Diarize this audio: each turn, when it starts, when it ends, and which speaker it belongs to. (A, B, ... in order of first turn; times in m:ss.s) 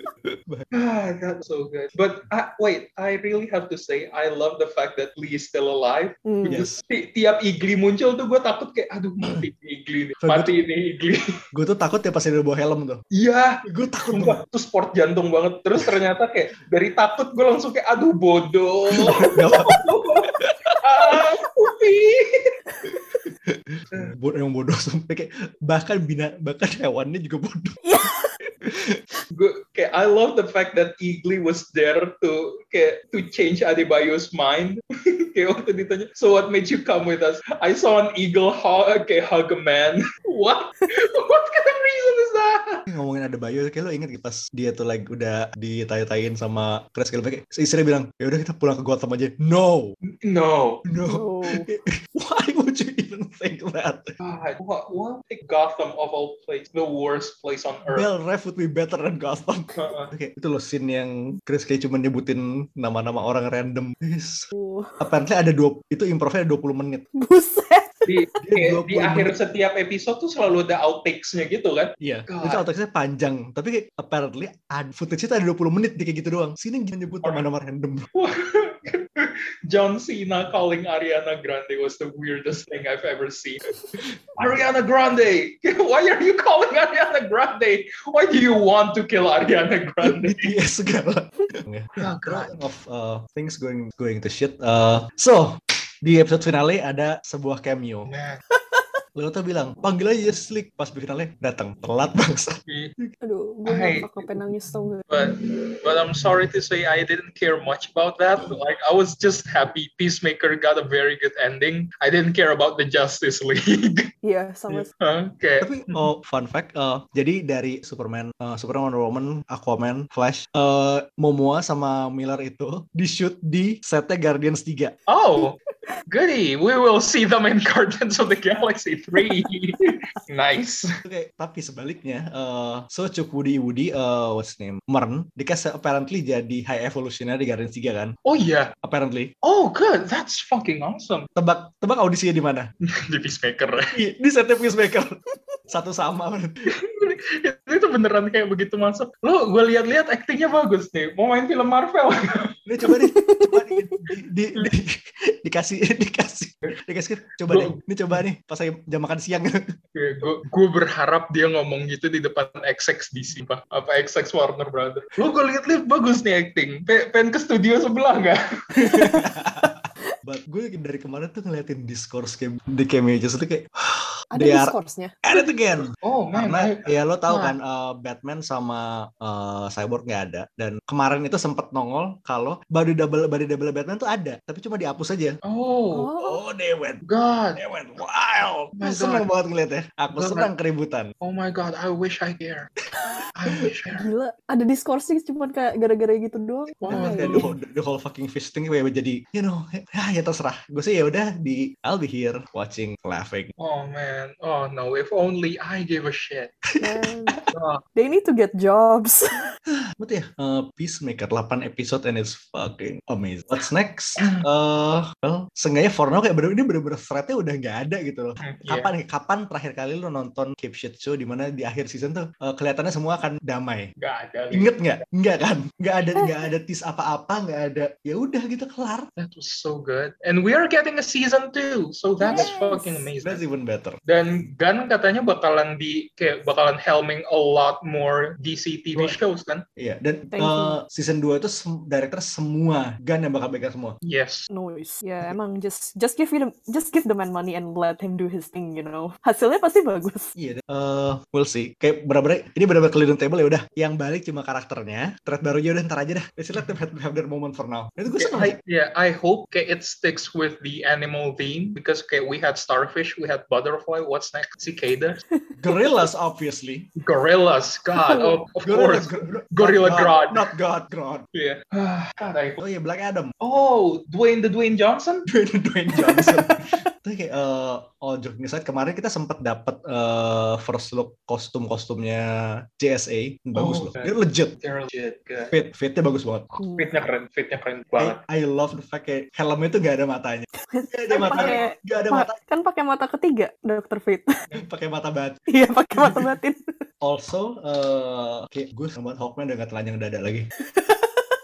0:00.7-0:11.3 A
0:06.3-0:06.6 B
0:06.4-0:06.8 C
0:10.2-0:10.5 C
0:11.5-0:13.0 C
0:13.1-0:22.5 A
0:13.7-0:14.4 C
0:18.9-0:19.8 C
0:20.4-0:21.2 C
0:23.3-0:27.8 C
0:27.8-0:28.4 B
0:28.6-0:29.0 C
0:29.3-0:42.8 A
0:42.9-0:50.0 C
0:50.2-0:50.8 A
0:50.9-0:54.2 C
0:51.0-0:51.7 B
0:54.2-0:58.1 A
0:57.9-1:07.1 C
0:59.8-1:00.1 A
1:04.5-1:05.0 B
1:07.2-1:08.1 B
1:08.1-1:12.6 A
1:08.4-1:09.4 C
1:12.0-1:18.1 C
1:18.2-1:23.7 A
1:24.4-1:30.5 A
1:30.0-1:38.1 C
1:32.0-1:32.5 A
1:38.1-1:38.4 A
1:39.2-1:43.1 C
1:42.7-1:42.9 A
1:43.2-1:45.1 B
1:43.7-1:44.3 A
1:45.1-1:54.1 A
1:54.2-1:54.9 B
1:54.7-1:56.1 A
1:55.6-2:05.0 C
2:05.1-2:05.6 A
2:06.1-2:10.9 A
2:11.0-2:18.2 C
2:18.2-2:18.7 A
2:18.8-2:19.3 C
2:19.4-2:21.3 A
2:21.4-2:22.7 C
2:22.9-2:24.0 A
2:23.9-2:25.2 C
2:25.7-2:26.5 C
2:26.7-2:32.5 A
2:32.7-2:39.7 C
2:32.9-2:34.0 B
2:37.5-2:38.2 A
2:40.0-2:48.4 A
2:48.8-3:05.4 C
2:48.8-2:49.1 B
2:54.3-2:55.2 B
2:56.0-2:57.6 A
3:05.4-3:06.1 A
3:05.9-3:06.4 B
3:06.2-3:07.0 C
3:07.0-3:07.6 A
3:07.6-3:11.1 C
3:08.8-3:09.3 A
3:10.1-3:10.5 A
3:11.2-3:12.7 A
3:13.4-3:14.1 A
3:13.9-3:17.5 B
3:16.8-3:17.5 A
3:16.9-3:23.5 C
3:23.6-3:26.5 A
3:26.7-3:27.4 C
3:26.8-3:27.4 B
3:27.5-3:27.8 A
3:28.0-3:29.5 B
3:29.7-3:43.9 C
3:38.4-3:38.9 A
3:44.0-3:44.7 A
3:44.5-3:49.1 C
3:46.2-3:46.4 B
3:49.2-3:53.4 A
3:52.2-3:53.1 B
3:53.2-3:54.0 C
3:54.1-3:59.6 A
3:59.8-4:04.0 C
4:00.3-4:00.8 B
4:04.0-4:04.5 A
4:04.5-4:10.4 B
4:10.4-4:18.6 C
4:18.2-4:25.2 A
4:25.6-4:26.9 C
4:27.0-4:30.5 A
4:28.1-4:28.4 B
4:28.6-4:31.3 C
4:31.3-4:32.6 A
4:32.6-4:33.3 C
4:33.4-4:35.3 A
4:35.3-4:44.5 C
4:36.0-4:36.7 B
4:43.6-4:45.5 A
4:45.5-4:46.5 C
4:46.6-4:47.0 B
4:46.8-4:48.2 A
4:48.0-4:52.4 C
4:50.7-4:54.3 B
4:51.3-4:51.6 A
4:54.6-4:55.4 C
4:55.5-4:56.8 B
4:56.0-4:56.2 C
4:57.0-5:00.5 C
5:00.7-5:01.2 B